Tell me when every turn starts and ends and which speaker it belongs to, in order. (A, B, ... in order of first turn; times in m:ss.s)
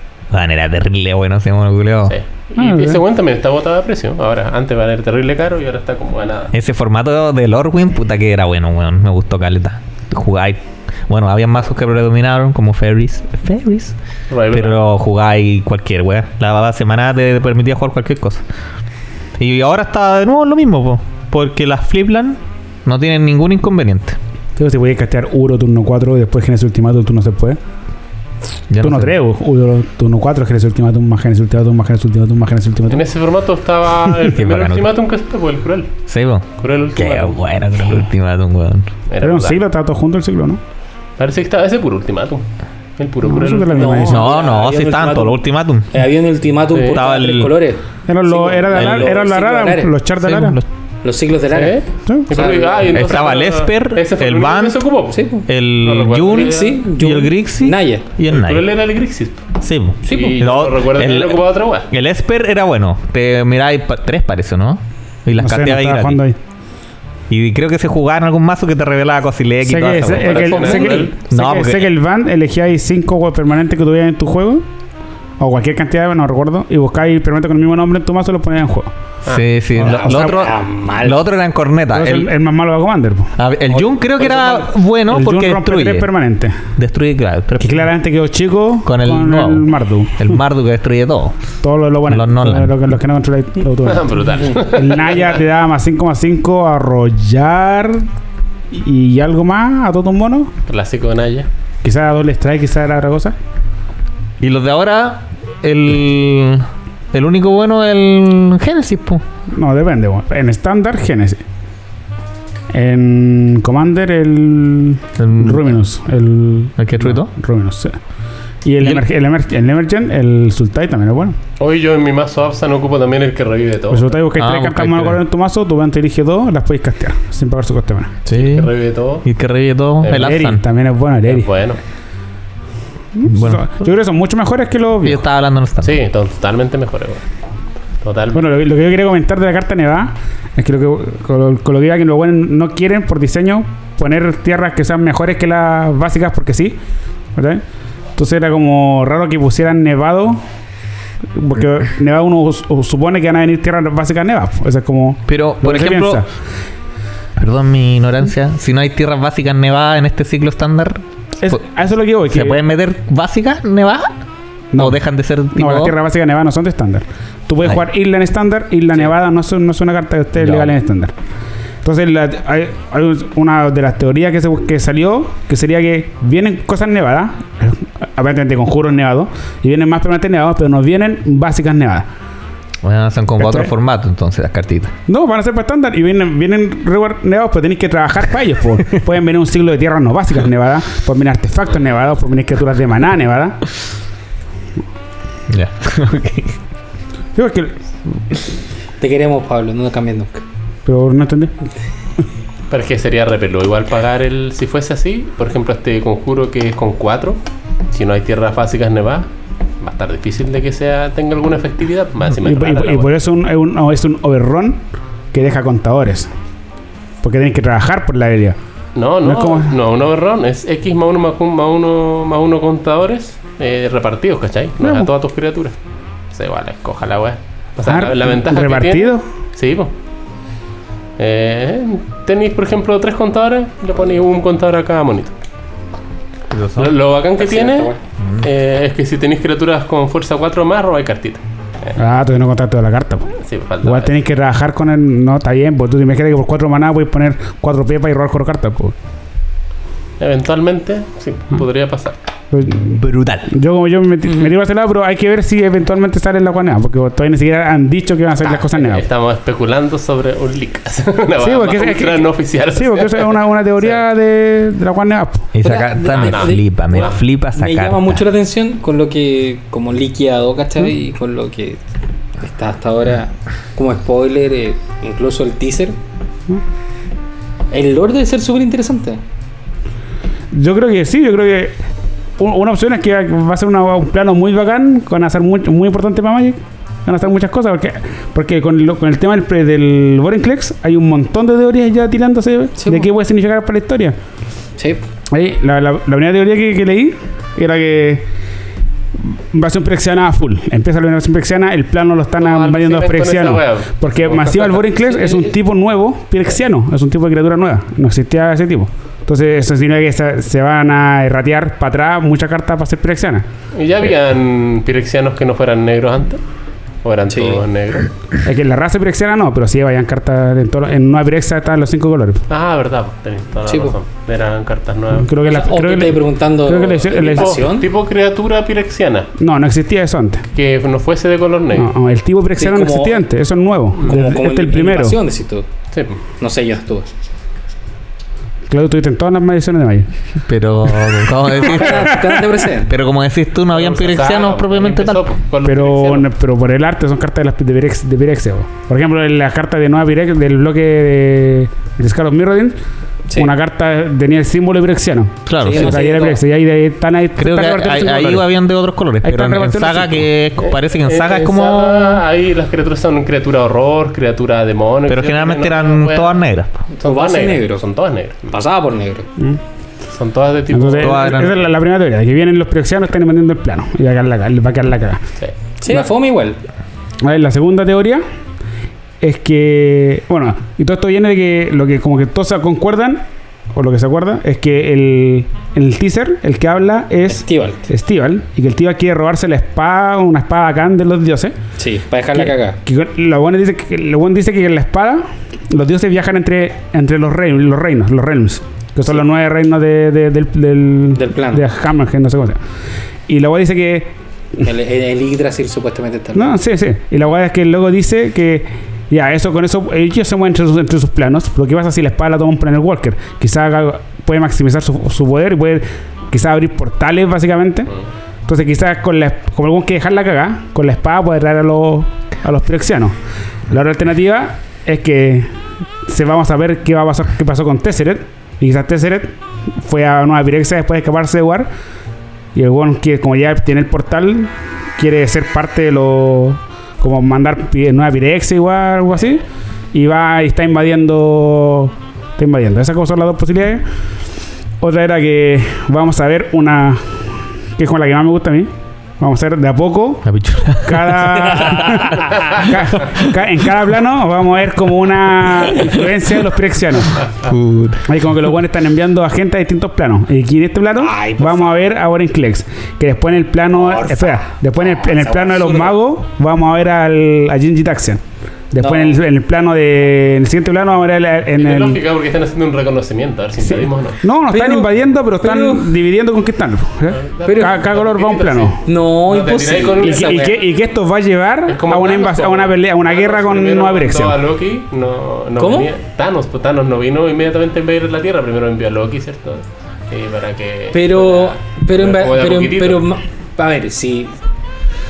0:00.3-0:02.2 A
0:02.1-0:06.5 B
0:02.6-0:03.0 C
0:06.5-0:13.9 A
0:14.3-0:14.8 B
0:14.5-0:18.4 A
0:19.4-0:24.2 A
0:24.6-0:27.6 C
0:28.7-0:29.1 A
0:28.8-0:33.0 C
0:32.9-0:35.9 B
0:34.3-0:34.9 A
0:36.1-0:38.9 A
0:36.6-0:38.0 B
0:39.1-0:39.6 B
0:39.2-0:40.6 C
0:41.2-0:42.4 B
0:43.0-0:44.1 B
0:43.2-0:44.3 C
0:43.7-0:49.9 D
0:44.0-0:45.9 A
0:46.9-0:47.5 A
0:48.1-0:50.6 C
0:48.7-0:49.1 A
0:50.2-0:50.6 A
0:51.0-0:52.9 D
0:51.5-0:55.2 B
0:52.1-0:52.3 C
0:52.9-0:54.8 A
0:55.1-0:55.4 D
0:55.4-0:58.7 A
0:55.8-0:56.8 B
0:56.3-0:58.0 D
0:58.3-0:59.5 B
0:59.6-1:06.2 A
1:00.0-1:01.9 B
1:00.0-1:00.4 D
1:05.4-1:06.4 C
1:07.3-1:11.9 A
1:09.6-1:14.6 C
1:10.1-1:11.1 B
1:15.4-1:18.9 C
1:19.3-1:22.3 A
1:19.8-1:20.4 C
1:19.8-1:21.2 D
1:21.9-1:23.3 C
1:23.4-1:26.1 A
1:23.7-1:24.7 D
1:25.1-1:26.6 C
1:26.8-1:27.9 A
1:27.6-1:30.4 C
1:28.8-1:29.6 A
1:30.2-1:31.4 A
1:31.6-1:38.1 C
1:32.1-1:32.7 A
1:33.8-1:35.4 B
1:38.7-1:40.5 C
1:40.7-1:41.5 B
1:41.8-1:43.3 C
1:44.4-1:49.2 A
1:49.5-1:51.4 C
1:52.7-1:58.0 C
1:55.2-1:55.7 A
1:56.8-1:57.3 A
1:58.6-2:01.4 C
2:01.6-2:04.2 B
2:03.9-2:08.2 C
2:04.4-2:05.2 A
2:08.3-2:08.7 A
2:08.3-2:09.2 B
2:09.2-2:10.6 A
2:10.0-2:10.5 B
2:10.1-2:11.5 C
2:11.3-2:11.8 B
2:13.1-2:15.2 C
2:13.3-2:13.7 A
2:15.0-2:15.9 A
2:15.8-2:17.2 B
2:18.0-2:18.4 B
2:18.3-2:26.8 C
2:27.3-2:27.6 C
2:28.2-2:30.4 C
2:31.3-2:36.3 C
2:35.3-2:36.2 A
2:37.4-2:41.6 A
2:41.4-2:42.6 C
2:42.3-2:44.1 A
2:44.7-2:45.0 C
2:44.8-2:45.9 A
2:45.5-2:51.1 C
2:50.4-2:50.7 A
2:51.8-3:02.1 C
3:02.8-3:04.9 A
3:03.4-3:03.7 C
3:05.1-3:13.6 C
3:15.5-3:16.5 A
3:17.3-3:17.7 C
3:19.0-3:20.4 D
3:20.8-3:21.5 C
3:22.7-3:27.4 B
3:27.9-3:29.3 B
3:29.8-3:33.1 B
3:32.4-3:36.3 C
3:37.2-3:38.6 C
3:39.0-3:45.7 B
3:39.2-3:39.7 C
3:44.8-3:45.1 C
3:46.3-3:49.9 B
3:47.9-3:49.2 C
3:51.2-3:55.3 B
3:56.5-3:56.9 A
3:56.8-4:02.0 B
3:57.4-3:58.0 D
3:58.2-3:58.5 A
4:02.0-4:08.9 C
4:03.4-4:04.2 B
4:10.2-4:12.2 B
4:12.5-4:19.0 C
4:12.8-4:13.5 A
4:18.6-4:24.0 B
4:21.4-4:25.5 C
4:25.5-4:28.2 A
4:25.6-4:31.8 D
4:26.1-4:27.2 B
4:32.4-4:36.0 D
4:37.7-4:39.2 D
4:40.5-4:41.8 C
4:42.4-4:54.2 C
4:52.8-4:53.1 D
4:54.8-4:55.0 D
4:55.3-4:58.3 C
4:59.2-5:13.4 C
5:02.4-5:05.5 B
5:13.7-5:16.4 B
5:17.0-5:18.1 B
5:17.3-5:17.6 D
5:18.4-5:22.4 C
5:22.5-5:25.4 B
5:23.6-5:24.0 D
5:25.1-5:27.6 C
5:25.4-5:27.9 D
5:27.3-5:29.3 B
5:29.4-5:30.4 C
5:30.5-5:31.9 B
5:31.7-5:35.2 C
5:32.6-5:33.2 D
5:34.0-5:35.7 D
5:35.9-5:36.2 B
5:36.4-5:37.1 D
5:38.7-5:40.1 C
5:40.5-5:42.3 A
5:41.5-5:42.9 D
5:41.7-5:42.6 C
5:42.8-5:45.2 A
5:43.7-5:46.3 B
5:45.6-5:52.8 C
5:53.3-5:58.5 C
5:55.4-5:56.0 A
5:55.6-5:56.4 D
5:57.4-6:02.2 A
5:59.2-6:00.3 C
6:00.6-6:06.4 B
6:05.1-6:06.8 A
6:07.0-6:08.5 B
6:07.0-6:07.8 D
6:08.5-6:09.3 D
6:10.1-6:11.5 B
6:10.7-6:15.2 C
6:11.0-6:11.5 A
6:15.8-6:16.6 D
6:17.2-6:18.2 C
6:19.2-6:31.5 C
6:27.3-6:27.8 D
6:31.8-6:32.8 D
6:32.3-6:42.6 C
6:41.1-6:41.6 D
6:43.3-6:44.1 C
6:44.6-6:46.6 D
6:46.3-6:57.9 C
6:58.4-7:03.1 C
7:03.7-7:05.5 C
7:06.0-7:11.7 C
7:12.5-7:23.8 C
7:24.8-7:37.2 C
7:30.2-7:33.3 A
7:31.6-7:32.3 D
7:37.4-7:38.1 A
7:38.0-7:52.0 C
7:41.0-7:41.8 D
7:43.7-7:45.9 D
7:48.8-7:49.2 D
7:51.6-7:54.2 B
7:53.6-7:58.8 C
7:54.5-7:55.9 D
7:57.1-8:00.6 B
7:57.4-7:57.8 D
7:58.8-8:00.6 D
8:00.0-8:04.4 C
8:01.7-8:13.1 B
8:05.6-8:05.9 D
8:10.9-8:14.3 D